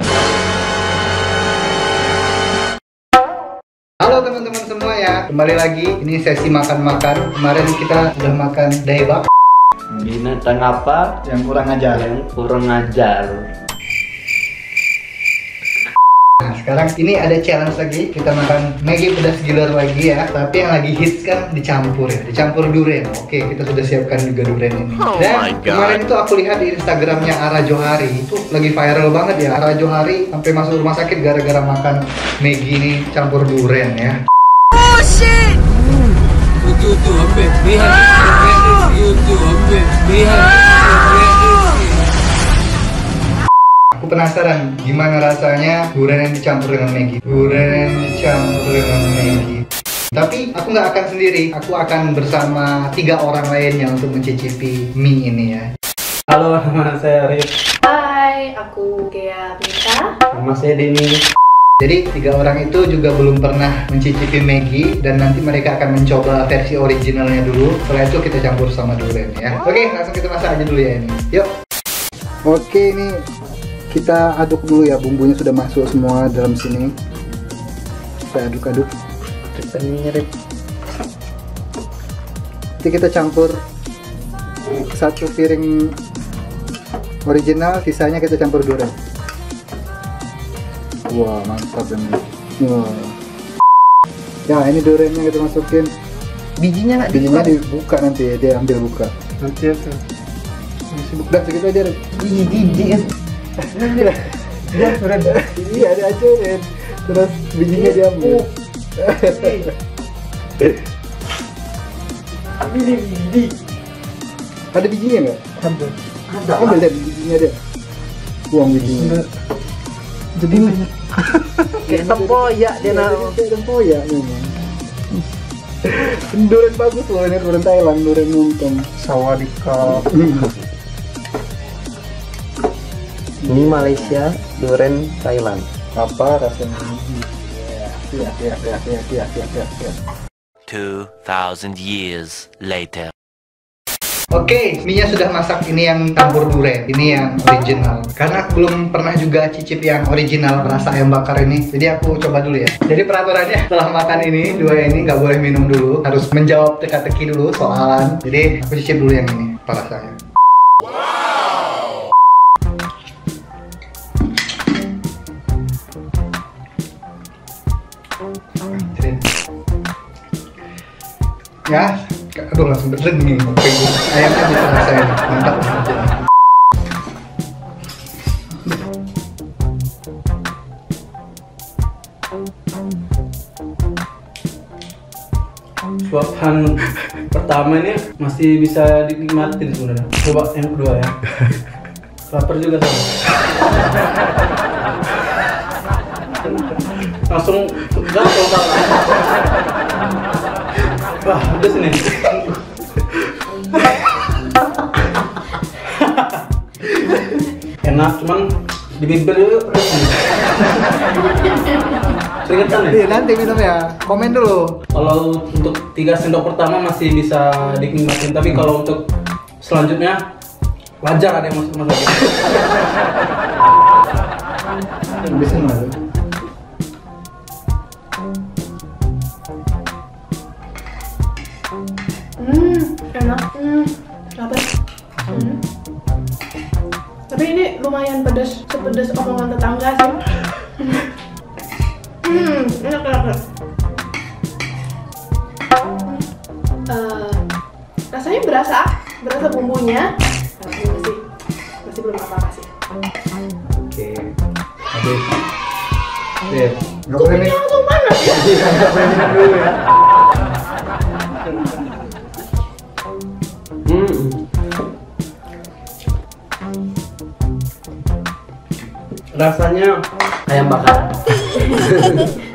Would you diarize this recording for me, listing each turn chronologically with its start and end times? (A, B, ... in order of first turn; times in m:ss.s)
0:04.0-0:09.3 A
0:09.9-0:11.2 B
0:11.2-0:12.1 A
0:11.9-0:13.4 B
0:16.4-0:34.2 A
0:25.2-0:26.0 C
0:36.7-0:38.0 D
0:38.8-0:40.4 D
0:44.0-0:55.7 A
0:56.3-0:57.5 D
0:57.8-1:00.1 E
1:00.3-1:01.2 B
1:01.8-1:11.5 A
1:12.5-1:13.2 A
1:13.9-1:16.9 A
1:18.3-1:18.9 A
1:19.6-1:20.3 B
1:22.8-1:23.6 A
1:24.9-1:26.0 A
1:27.3-1:28.9 A
1:31.1-1:33.2 A
1:34.5-1:35.9 A
1:36.6-1:37.5 B
1:37.1-1:39.1 A
1:39.4-1:39.8 B
1:40.9-1:42.1 A
1:42.2-1:43.1 B
1:43.8-1:44.1 B
1:43.8-1:48.4 A
1:44.8-1:45.2 B
1:47.7-1:48.4 B
1:49.0-1:49.6 A
1:49.2-1:49.7 B
1:52.7-1:53.5 B
1:54.7-1:55.6 A
1:56.3-1:56.8 B
1:56.6-1:57.6 A
1:58.5-1:59.2 A
2:01.7-2:04.5 A
2:01.9-2:03.3 B
2:05.8-2:08.9 A
2:09.8-2:10.5 A
2:13.4-2:14.2 A
2:13.5-2:15.7 B
2:16.0-2:20.0 A
2:20.7-2:23.1 C
2:24.3-2:40.2 A
2:48.7-2:49.2 A
2:51.7-2:56.2 A
3:06.0-3:06.8 D
3:07.3-3:11.2 D
3:12.3-3:13.1 D
3:17.3-3:19.1 D
3:21.2-3:22.4 D
3:25.9-3:26.4 D
3:27.8-3:30.3 D
3:31.2-3:32.1 E
3:32.4-3:33.0 D
3:32.9-3:34.8 A
3:34.9-3:39.0 D
3:39.6-3:40.2 D
3:41.0-3:42.6 D
3:45.2-3:46.0 A
3:52.4-3:54.7 E
3:55.3-3:55.5 A
3:55.3-3:55.6 E
3:57.3-4:00.2 E
4:02.2-4:03.4 E
4:06.9-4:07.4 E
4:08.1-4:10.1 E
4:10.6-4:11.2 E
4:11.8-4:12.7 E
4:13.8-4:14.3 A
4:14.9-4:15.4 A
4:16.5-4:17.6 A
4:17.2-4:18.5 E
4:18.3-4:19.8 A
4:19.1-4:19.4 B
4:23.9-4:24.4 B
4:29.3-4:32.4 B